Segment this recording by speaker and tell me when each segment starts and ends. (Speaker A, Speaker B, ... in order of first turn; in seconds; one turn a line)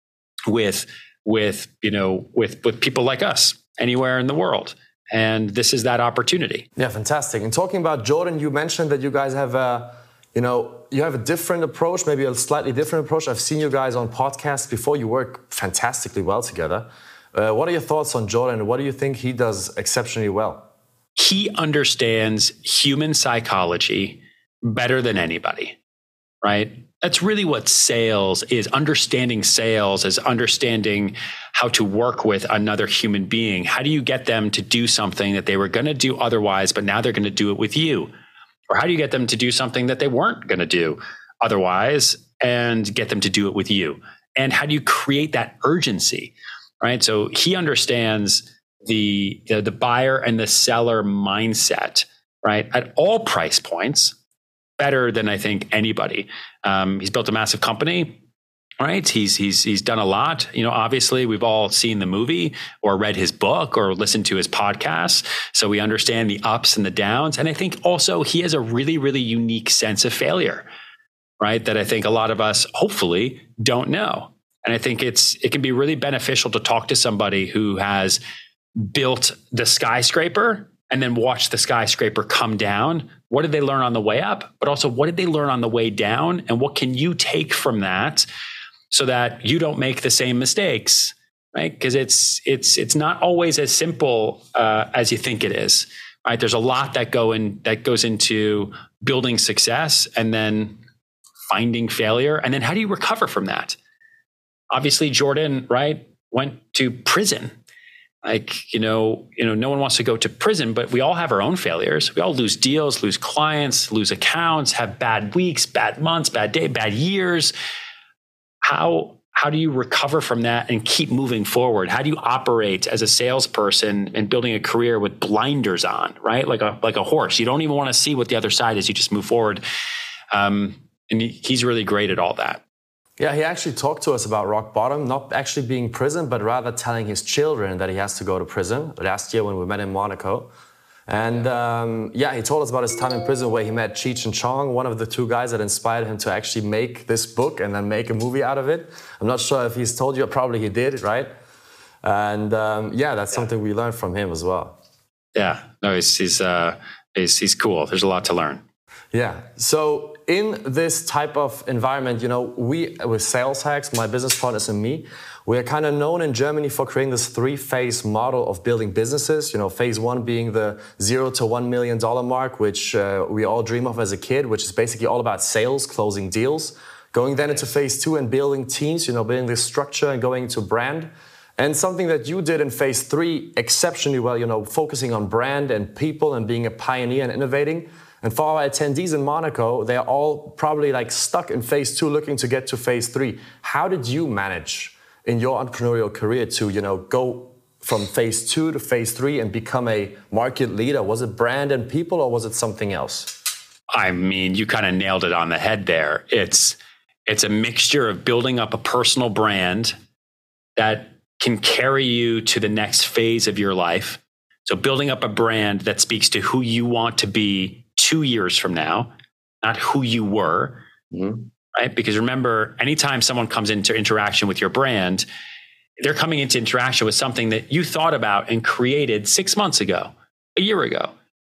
Speaker A: 0.5-6.7
Speaker B: 6.8-20.7
Speaker A: 21.2-25.8
Speaker A: 26.4-38.1
Speaker A: 38.7-54.2
Speaker A: 54.8-58.2
Speaker A: 58.8-70.7
Speaker A: 71.4-78.2
Speaker A: 78.8-88.3
Speaker A: 88.9-100.8
Speaker A: 101.5-103.8
Speaker A: 104.7-107.5
Speaker A: 108.2-117.5
Speaker A: 118.6-129.6
Speaker A: 130.3-132.6
Speaker B: 133.2-140.5
Speaker B: 141.1-151.3
Speaker B: 152.0-154.8
Speaker A: 155.3-158.6
Speaker B: 159.1-203.4
Speaker A: 203.9-209.9
Speaker A: 210.8-219.1
Speaker A: 219.6-220.8
Speaker B: 221.1-221.4
Speaker A: 221.8-225.3
Speaker A: 226.0-231.1